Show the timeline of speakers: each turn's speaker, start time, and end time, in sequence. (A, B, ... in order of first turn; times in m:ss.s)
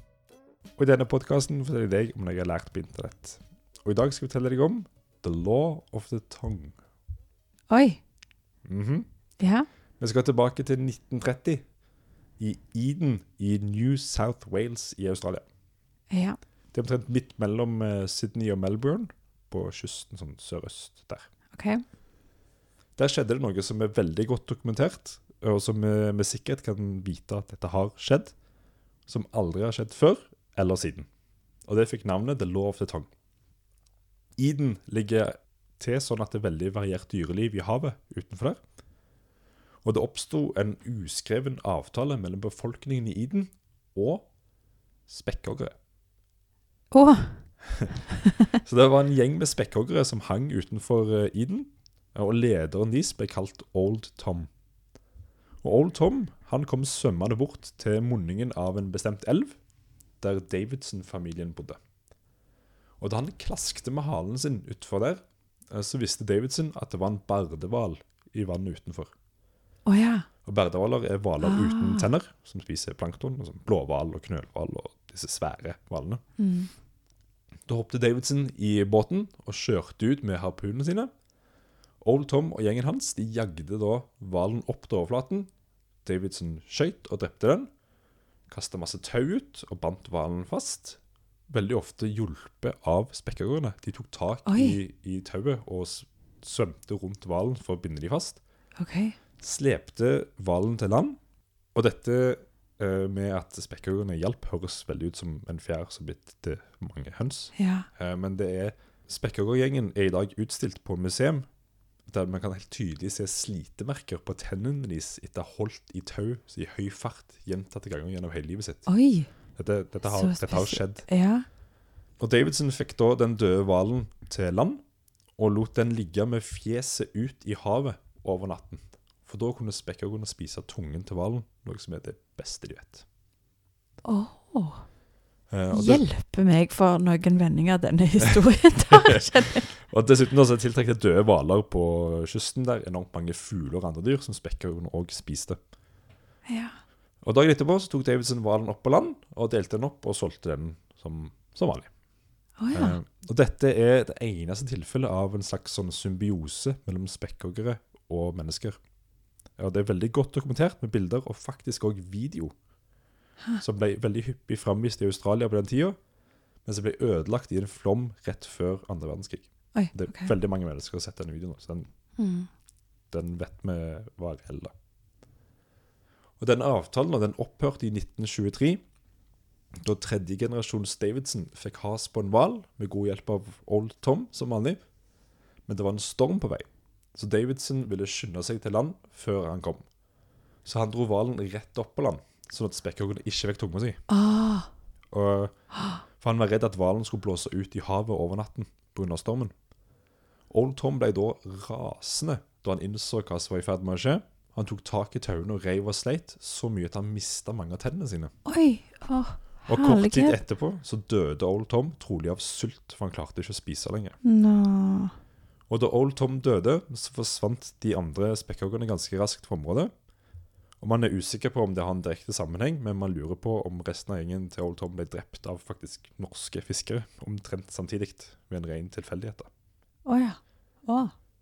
0:00.8-0:06.8 A
0:07.7-0:08.0 B
0:08.6-0:09.1 A
0:09.4-0:09.7 B
0:10.0-0:11.6 A
0:12.4-0:15.4 A
0:16.1-0:16.4 B
0:16.7-0:21.3 A
0:21.5-0:21.8 B
0:23.0-0:28.3 A
0:29.1-0:31.1 A
0:31.6-0:33.1 A
0:34.4-0:38.6 A
0:39.8-0:44.3 A
0:45.1-0:45.7 A
0:46.9-0:47.5 B
0:48.6-0:54.5 A
0:55.6-0:59.6 A
1:00.2-1:01.8 A
1:03.0-1:09.1 A
1:09.8-1:10.2 B
1:10.4-1:16.2 A
1:11.4-1:12.1 B
1:16.4-1:16.7 B
1:17.6-1:21.1 A
1:22.0-1:25.5 A
1:26.0-1:27.7 A
1:28.5-1:38.4 A
1:34.4-1:34.8 B
1:38.8-1:39.2 B
1:39.4-1:41.2 A
1:41.7-1:51.4 A
1:47.5-1:47.9 B
1:52.1-1:58.9 A
1:58.9-1:59.3 B
1:59.6-2:01.0 A
2:00.0-2:01.4 B
2:02.2-2:04.8 A
2:05.4-2:13.0 A
2:14.0-2:14.8 B
2:15.5-2:16.0 A
2:15.7-2:19.7 B
2:19.7-2:25.6 A
2:26.4-2:26.7 B
2:27.2-2:31.9 A
2:32.6-2:33.0 B
2:32.7-2:38.8 A
2:39.6-2:42.5 A
2:43.6-2:46.0 A
2:46.6-2:51.9 A
2:49.7-2:50.3 B
2:52.2-2:52.5 B
2:53.1-2:54.7 A
2:56.4-2:58.8 A
2:59.8-3:04.8 A
3:05.6-3:09.9 A
3:10.6-3:14.0 A
3:14.1-3:14.7 B
3:15.1-3:19.5 A
3:20.5-3:28.3 A
3:28.4-3:30.4 B
3:29.7-3:34.2 A
3:34.2-3:35.1 B
3:35.7-3:39.9 A
3:40.8-3:49.5 A
3:50.0-3:51.1 B